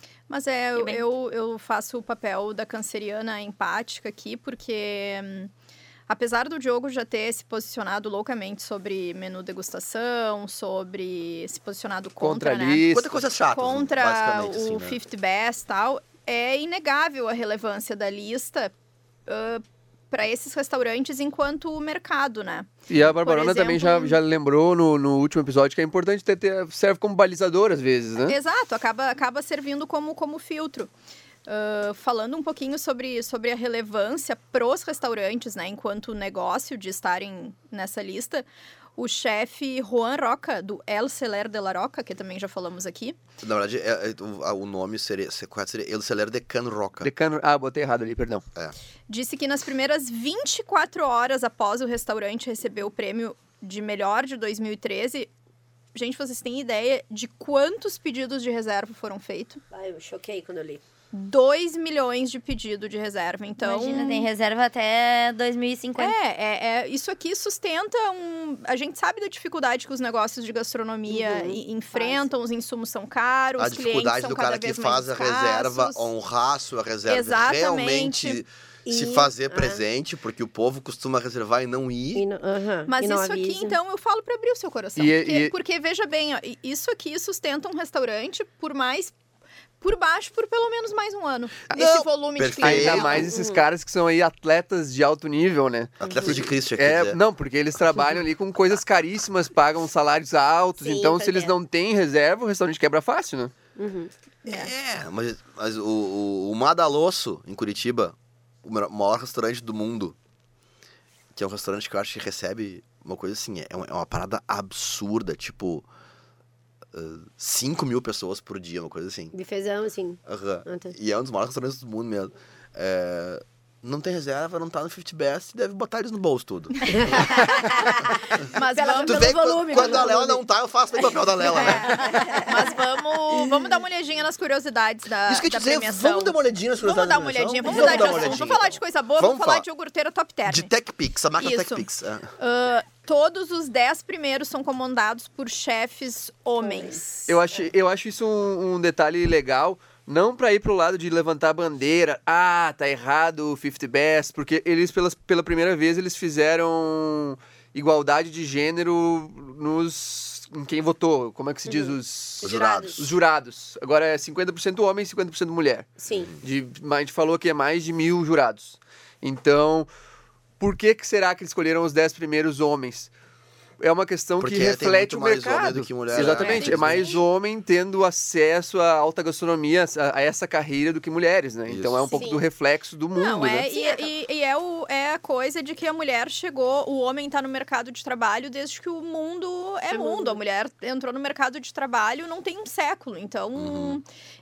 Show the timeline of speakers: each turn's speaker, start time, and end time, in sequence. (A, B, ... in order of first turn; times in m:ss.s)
0:00.3-0:05.5 A
0:00.8-0:01.0 B
0:06.1-0:12.9 A
0:12.2-0:13.2 C
0:12.9-0:15.0 D
0:13.5-0:18.7 A
0:19.3-0:24.2 A
0:22.9-0:28.4 C
0:28.3-0:30.9 A
0:31.4-0:38.4 A
0:39.0-0:43.2 A
0:43.4-0:47.1 D
0:47.0-0:48.4 C
0:49.1-0:55.3 A
0:55.9-0:59.6 A
0:59.7-1:00.8 E
1:01.1-1:04.3 A
1:03.6-1:06.2 B
1:06.0-1:16.1 A
1:11.1-1:12.3 E
1:13.6-1:22.2 D
1:17.1-1:18.4 A
1:18.9-1:19.8 E
1:22.1-1:23.8 E
1:22.9-1:29.1 A
1:25.0-1:25.5 C
1:29.8-1:33.3 A
1:31.7-1:33.3 D
1:32.6-1:43.5 C
1:33.3-1:33.6 E
1:36.0-1:37.2 D
1:36.0-1:36.4 E
1:40.8-1:41.5 E
1:43.8-1:44.1 E
1:44.4-1:44.7 A
1:44.4-1:50.2 D
1:51.3-1:55.8 D
1:56.9-1:59.3 D
1:59.3-2:00.9 E
2:00.2-2:07.9 D
2:06.8-2:10.4 E
2:08.5-2:10.1 A
2:09.0-2:12.2 D
2:11.0-2:12.8 E
2:11.5-2:20.7 A
2:15.3-2:19.6 D
2:17.7-2:18.4 E
2:20.4-2:22.3 D
2:21.4-2:21.9 A
2:22.4-2:27.4 A
2:26.6-2:27.0 E
2:27.3-2:49.9 C
2:41.6-2:43.0 E
2:42.4-2:43.1 D
2:46.0-2:46.3 E
2:50.6-2:53.1 C
2:53.8-3:03.7 C
2:54.4-2:57.2 D
2:56.1-2:57.2 E
3:01.7-3:02.2 D
3:02.1-3:02.4 E
3:03.1-3:14.0 A
3:03.7-3:04.1 E
3:09.9-3:10.4 E
3:13.6-3:14.0 D